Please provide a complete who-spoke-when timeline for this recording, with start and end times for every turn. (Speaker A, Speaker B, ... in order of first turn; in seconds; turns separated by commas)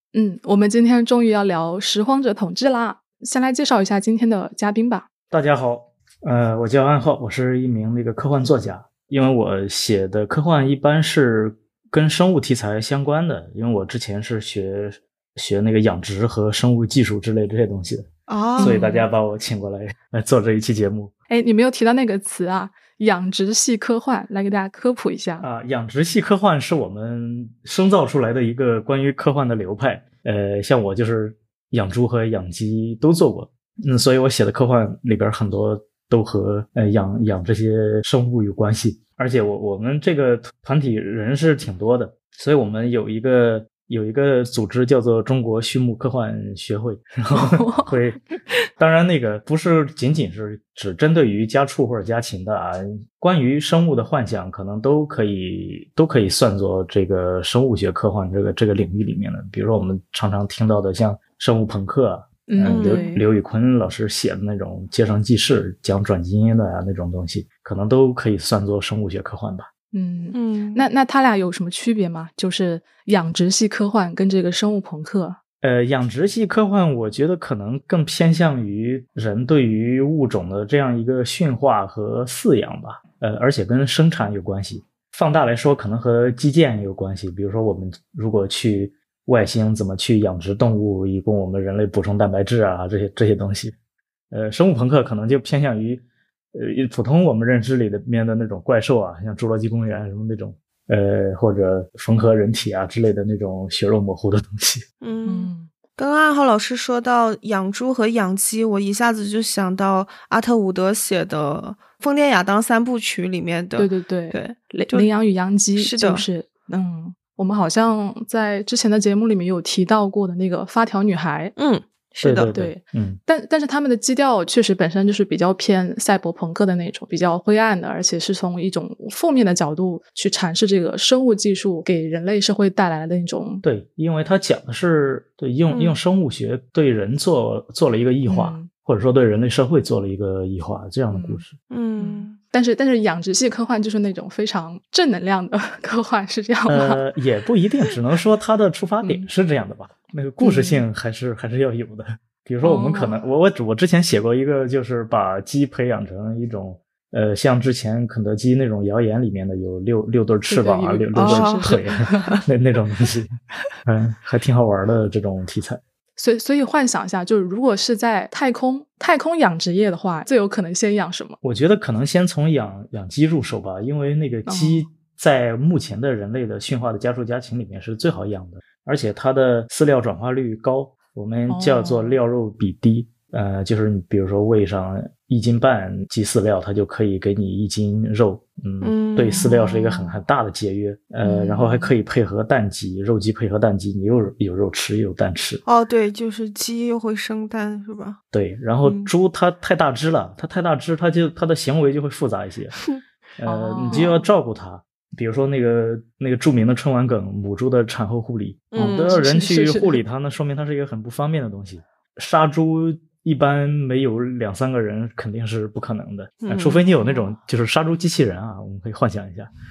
Speaker A: 0.1-5.1, Speaker B: 5.3-21.1, Speaker C: 18.3-18.9, Speaker A: 18.6-19.1, Speaker A: 21.3-25.4, Speaker B: 25.4-48.2, Speaker A: 47.3-47.9, Speaker B: 48.8-69.7, Speaker A: 62.5-63.2, Speaker C: 62.6-63.0, Speaker A: 69.9-75.4, Speaker C: 70.3-70.8, Speaker B: 75.6-93.7, Speaker B: 94.3-96.0, Speaker B: 96.5-104.8, Speaker C: 105.0-115.1, Speaker A: 105.2-105.7, Speaker A: 113.8-121.5, Speaker C: 115.8-116.2, Speaker C: 121.6-122.5, Speaker B: 122.2-123.2, Speaker A: 122.5-133.6, Speaker B: 133.6-141.6, Speaker C: 135.7-135.9, Speaker A: 138.2-138.7, Speaker A: 141.1-141.4, Speaker C: 141.7-142.4, Speaker A: 142.0-147.0, Speaker B: 146.7-163.3, Speaker A: 150.4-150.8, Speaker A: 152.6-153.2, Speaker A: 160.4-162.4, Speaker C: 161.1-162.4, Speaker B: 163.8-165.8, Speaker A: 166.2-171.4, Speaker B: 171.4-195.6, Speaker A: 174.4-174.9, Speaker A: 181.5-182.2, Speaker C: 188.8-189.5, Speaker A: 189.3-190.2, Speaker A: 191.2-191.9, Speaker C: 195.6-198.2, Speaker B: 198.3-202.8, Speaker C: 198.8-199.1, Speaker B: 203.4-219.5, Speaker A: 203.4-204.2, Speaker C: 208.7-209.2, Speaker A: 208.8-210.0, Speaker C: 216.4-216.9